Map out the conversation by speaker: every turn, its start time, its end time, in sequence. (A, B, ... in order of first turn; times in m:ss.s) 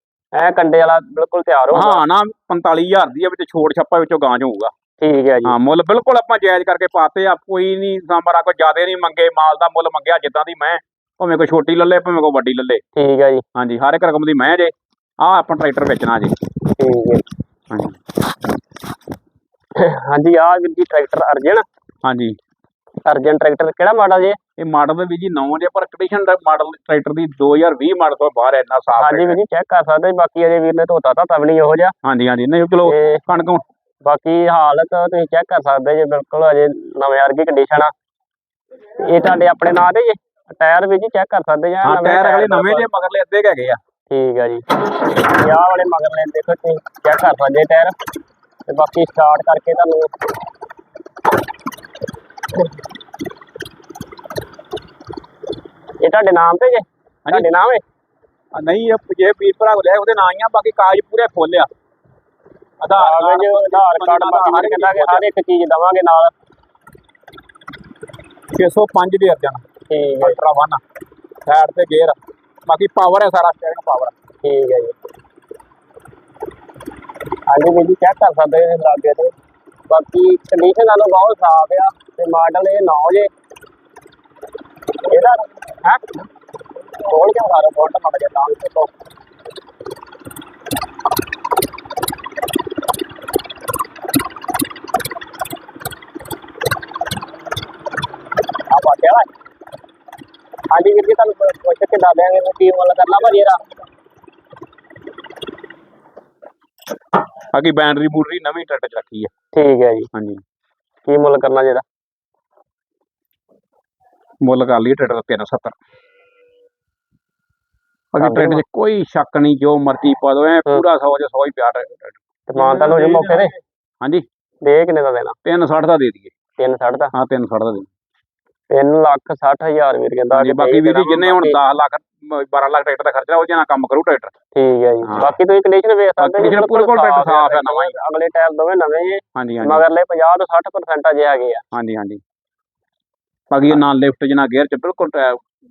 0:00.4-0:02.0 A
0:01.7-0:04.7 B
0:05.0-0:05.6 A
0:05.5-0:12.8 B
0:12.9-0:13.4 A
0:13.5-0:16.3 B
0:16.8-0:17.2 A
0:17.7-0:18.0 B
0:19.8-0:21.6 A
0:22.0-0:22.4 B
0:23.0-0:24.4 A
0:24.6-0:29.4 B
0:29.0-0:31.9 A
0:32.0-0:33.6 B
0:32.8-0:33.2 A
0:34.0-0:37.9 A
0:39.0-0:42.8 A
0:41.8-0:43.8 B
0:44.1-0:47.9 A
0:48.7-0:50.1 A
0:56.0-0:57.8 A
0:58.5-1:01.7 B
1:02.8-1:05.2 B
1:03.0-1:06.3 A
1:08.5-1:09.6 B
1:09.9-1:10.4 A
1:10.2-1:10.8 B
1:11.4-1:14.1 B
1:14.4-1:14.9 A
1:17.5-1:19.3 A
1:19.9-1:23.3 A
1:25.0-1:26.2 A
1:27.0-1:28.9 A
1:38.7-1:39.2 A
1:40.7-1:43.6 A
1:47.5-1:49.3 B
1:49.5-1:50.1 A
1:50.1-1:50.4 B
1:51.0-1:51.8 A
1:54.4-1:55.8 B
1:58.1-2:04.2 B
1:58.2-1:58.6 A
2:02.5-2:03.5 A
2:04.6-2:05.4 A
2:05.4-2:06.3 B
2:06.6-2:07.1 A
2:07.1-2:07.9 B
2:08.7-2:11.6 A
2:10.3-2:14.3 B
2:14.5-2:21.6 A
2:15.0-2:15.3 B
2:16.2-2:18.0 B
2:19.3-2:19.8 B
2:21.7-2:22.2 B
2:23.5-2:25.4 B